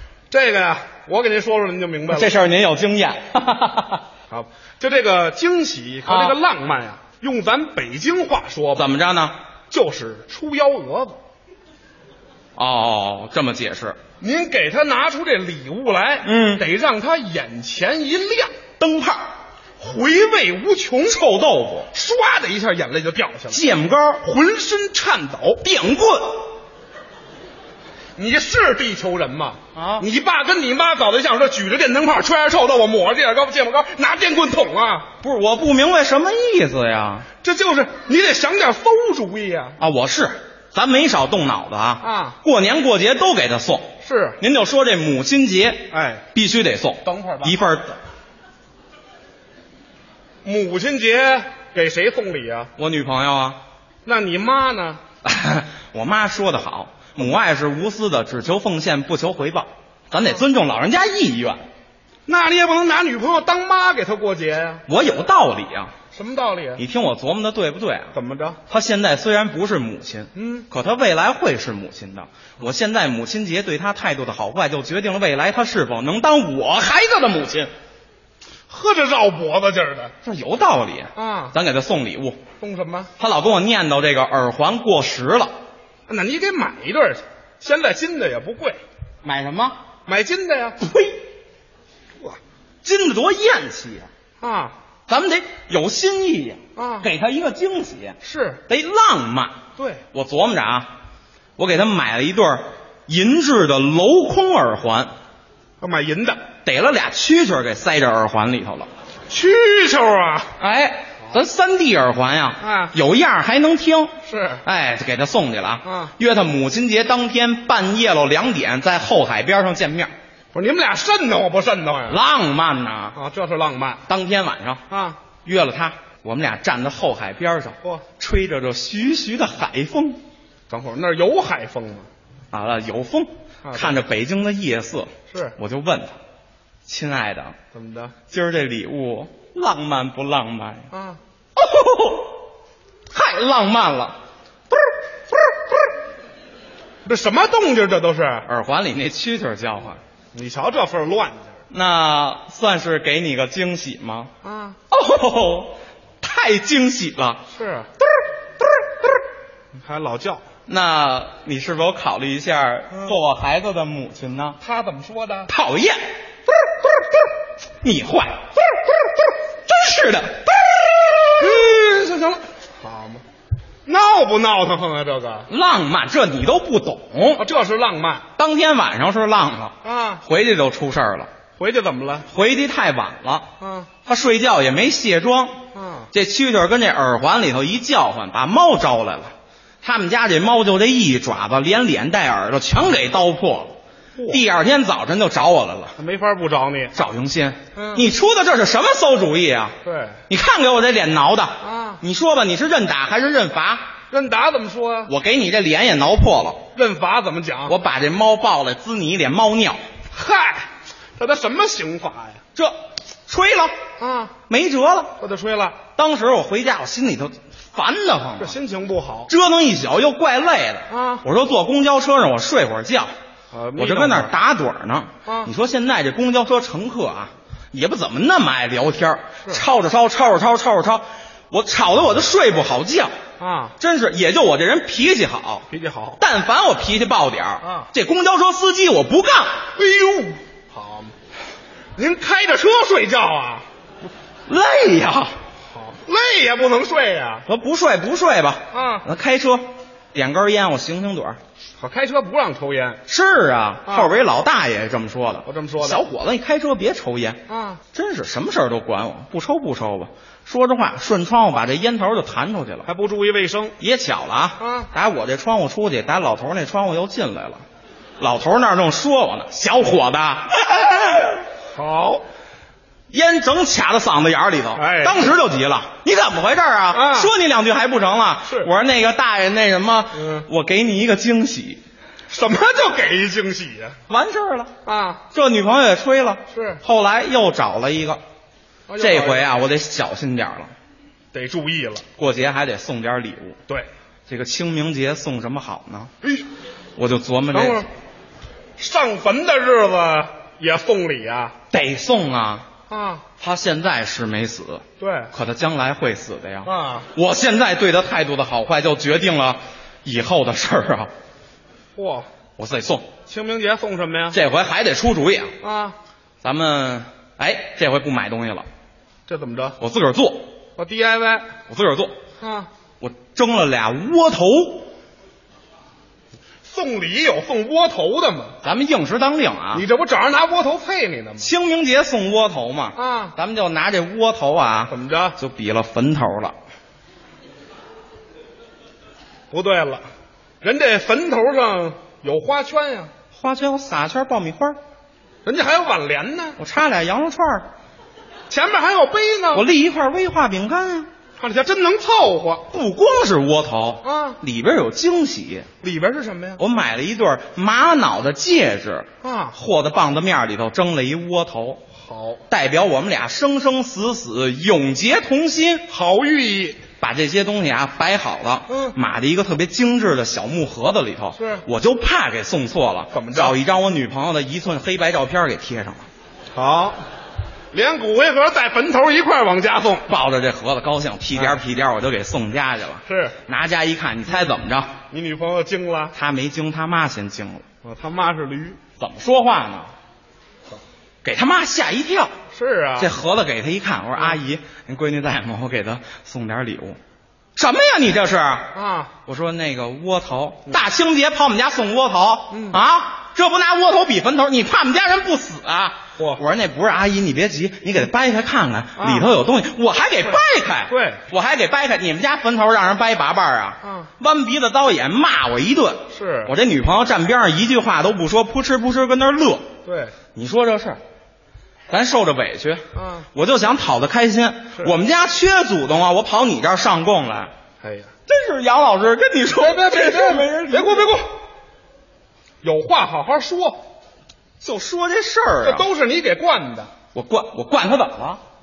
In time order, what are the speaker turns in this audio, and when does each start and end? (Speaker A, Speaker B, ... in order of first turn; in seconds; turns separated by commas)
Speaker A: 0.3-2.4, Speaker B: 2.1-4.0, Speaker A: 4.3-8.9, Speaker B: 6.1-6.4, Speaker B: 8.8-9.4, Speaker A: 9.7-11.2, Speaker B: 12.6-14.0, Speaker A: 14.2-18.5, Speaker B: 16.2-16.6, Speaker B: 18.8-19.2, Speaker A: 19.8-21.2, Speaker B: 21.0-21.9, Speaker A: 21.9-23.6, Speaker B: 23.5-24.2, Speaker A: 24.2-25.6, Speaker B: 25.6-26.5, Speaker A: 28.2-35.1, Speaker B: 29.8-30.1, Speaker B: 35.2-37.3, Speaker A: 37.4-39.8, Speaker B: 39.8-48.0, Speaker A: 42.0-42.4, Speaker A: 44.0-44.4, Speaker A: 45.9-46.3, Speaker A: 47.0-47.6, Speaker A: 50.4-52.7, Speaker B: 52.8-53.6, Speaker A: 54.0-55.0, Speaker B: 55.2-61.6, Speaker A: 62.3-64.8, Speaker B: 64.9-65.9, Speaker A: 66.1-66.8, Speaker B: 66.8-68.2, Speaker A: 68.1-68.6, Speaker B: 68.7-77.7, Speaker A: 70.3-70.7, Speaker A: 78.7-80.2, Speaker B: 80.2-82.4, Speaker A: 81.2-81.5, Speaker A: 82.6-83.1, Speaker B: 83.2-85.5, Speaker A: 86.1-88.8, Speaker B: 89.2-89.8, Speaker A: 90.0-90.8, Speaker B: 90.8-91.2, Speaker B: 92.8-94.1, Speaker A: 94.4-94.8, Speaker B: 95.1-99.6, Speaker A: 96.8-97.1, Speaker A: 98.2-98.6, Speaker A: 99.8-100.0, Speaker B: 100.1-100.9, Speaker B: 101.6-105.1, Speaker A: 105.8-106.4, Speaker B: 106.6-108.9, Speaker A: 109.3-110.5, Speaker B: 110.6-114.1, Speaker A: 112.6-112.9, Speaker A: 114.2-114.6, Speaker B: 114.6-120.1, Speaker A: 115.8-116.1, Speaker A: 120.5-122.2, Speaker B: 122.1-123.2, Speaker A: 123.1-124.0, Speaker B: 124.1-124.8, Speaker A: 124.9-125.2, Speaker B: 125.4-130.2, Speaker A: 130.7-132.1, Speaker B: 132.5-136.2, Speaker A: 133.6-134.0, Speaker A: 135.3-135.6, Speaker B: 136.9-137.6, Speaker A: 137.7-138.1, Speaker B: 138.3-140.9, Speaker A: 140.9-141.2, Speaker B: 141.6-142.4, Speaker B: 143.1-144.2, Speaker A: 147.1-148.5, Speaker B: 148.4-150.0, Speaker A: 150.3-151.6, Speaker B: 151.7-154.3, Speaker A: 154.4-154.8, Speaker B: 154.9-157.4, Speaker A: 157.5-157.9, Speaker A: 159.8-160.4, Speaker B: 160.7-164.6, Speaker A: 164.6-165.5, Speaker B: 165.5-166.0, Speaker B: 167.8-168.8, Speaker B: 169.7-171.7, Speaker A: 171.4-173.2, Speaker A: 173.9-175.5, Speaker B: 175.5-177.4, Speaker A: 177.4-178.2, Speaker B: 178.4-181.3, Speaker A: 179.8-180.2, Speaker A: 181.6-182.3, Speaker B: 182.3-183.5, Speaker A: 183.6-183.9, Speaker B: 184.1-185.6, Speaker A: 185.7-186.1, Speaker B: 186.1-193.7, Speaker A: 194.2-194.4, Speaker B: 194.3-195.9, Speaker A: 196.0-197.0, Speaker B: 196.9-199.8, Speaker A: 197.8-198.1, Speaker A: 199.8-200.2, Speaker B: 200.3-203.9, Speaker A: 201.6-202.0, Speaker A: 204.1-205.1, Speaker B: 205.1-206.6, Speaker A: 206.7-207.8, Speaker B: 207.7-209.8, Speaker A: 210.1-212.4, Speaker B: 212.6-213.8, Speaker A: 214.0-214.3, Speaker B: 214.5-215.2, Speaker A: 215.2-215.8, Speaker B: 216.0-218.6, Speaker A: 218.4-219.3, Speaker B: 219.3-223.1, Speaker A: 220.9-221.2, Speaker A: 223.5-224.3, Speaker B: 223.8-233.2, Speaker A: 225.2-225.5, Speaker A: 233.4-233.8, Speaker B: 233.8-235.7, Speaker A: 235.7-236.2, Speaker B: 236.2-239.7, Speaker A: 237.6-237.9, Speaker A: 239.8-241.2, Speaker A: 242.0-243.7, Speaker B: 244.5-245.4, Speaker A: 245.7-247.5, Speaker B: 247.5-251.4, Speaker A: 248.7-249.1, Speaker A: 251.8-253.0, Speaker B: 253.1-257.4, Speaker A: 255.4-256.0, Speaker A: 257.5-257.8, Speaker B: 257.9-262.9, Speaker A: 262.9-263.8, Speaker B: 263.8-267.6, Speaker A: 264.6-264.9, Speaker B: 268.2-271.4, Speaker A: 271.7-272.2, Speaker B: 273.1-281.8, Speaker A: 274.8-275.3, Speaker A: 276.9-277.3, Speaker A: 280.2-280.5, Speaker A: 282.3-284.0, Speaker B: 284.1-284.7, Speaker A: 284.8-285.2, Speaker B: 285.3-288.2, Speaker A: 286.5-286.8, Speaker A: 288.9-289.6, Speaker B: 289.0-290.7, Speaker A: 291.3-292.1, Speaker B: 292.2-293.6, Speaker B: 294.3-296.1, Speaker B: 297.0-297.9, Speaker A: 297.5-297.9, Speaker A: 298.8-301.6, Speaker B: 301.7-302.7, Speaker A: 302.9-303.2, Speaker B: 303.4-311.1, Speaker A: 305.0-305.3, Speaker A: 306.6-307.1, Speaker A: 311.9-312.3, Speaker B: 312.6-313.1, Speaker A: 313.3-314.4, Speaker B: 314.3-315.6, Speaker A: 315.6-316.0, Speaker B: 316.4-318.7, Speaker A: 319.3-319.8, Speaker B: 319.8-320.5, Speaker A: 320.8-321.5, Speaker B: 321.7-322.1, Speaker A: 322.4-322.7, Speaker B: 323.0-324.9, Speaker A: 326.6-328.6, Speaker B: 328.6-329.9, Speaker A: 329.7-331.5, Speaker B: 331.4-336.6, Speaker A: 332.9-333.4, Speaker A: 334.9-335.4, Speaker A: 339.5-340.1, Speaker A: 340.6-343.1, Speaker B: 343.3-344.8, Speaker A: 345.4-346.6, Speaker B: 346.6-347.7, Speaker A: 348.5-349.7, Speaker B: 349.5-351.1, Speaker A: 351.4-352.7, Speaker B: 352.7-355.7, Speaker A: 354.0-354.4, Speaker A: 355.8-356.6, Speaker B: 356.6-361.8, Speaker A: 359.2-359.6, Speaker A: 361.9-362.4, Speaker B: 362.5-365.9, Speaker A: 365.9-366.8, Speaker B: 367.0-376.1, Speaker A: 368.7-369.0, Speaker A: 371.4-371.6, Speaker A: 373.1-373.6, Speaker A: 376.5-377.0, Speaker A: 377.7-380.1, Speaker B: 380.1-385.0, Speaker A: 381.3-381.6, Speaker A: 383.1-383.4, Speaker A: 385.1-386.1, Speaker B: 386.1-387.6, Speaker A: 387.8-388.8, Speaker B: 389.0-389.9, Speaker B: 391.2-392.4, Speaker A: 392.5-393.1, Speaker B: 393.0-397.0, Speaker B: 397.6-398.7, Speaker A: 398.7-399.1, Speaker B: 399.3-419.7, Speaker A: 402.5-402.8, Speaker A: 406.2-406.4, Speaker A: 409.0-409.3, Speaker A: 410.3-411.2, Speaker A: 413.8-414.1, Speaker A: 416.1-416.6, Speaker A: 419.9-420.2, Speaker B: 420.4-421.0, Speaker B: 421.9-427.5, Speaker A: 422.9-423.3, Speaker A: 427.8-428.1, Speaker B: 428.3-431.2, Speaker A: 429.6-431.3, Speaker A: 432.6-433.8, Speaker B: 434.6-435.9, Speaker A: 435.6-436.9, Speaker B: 437.1-438.4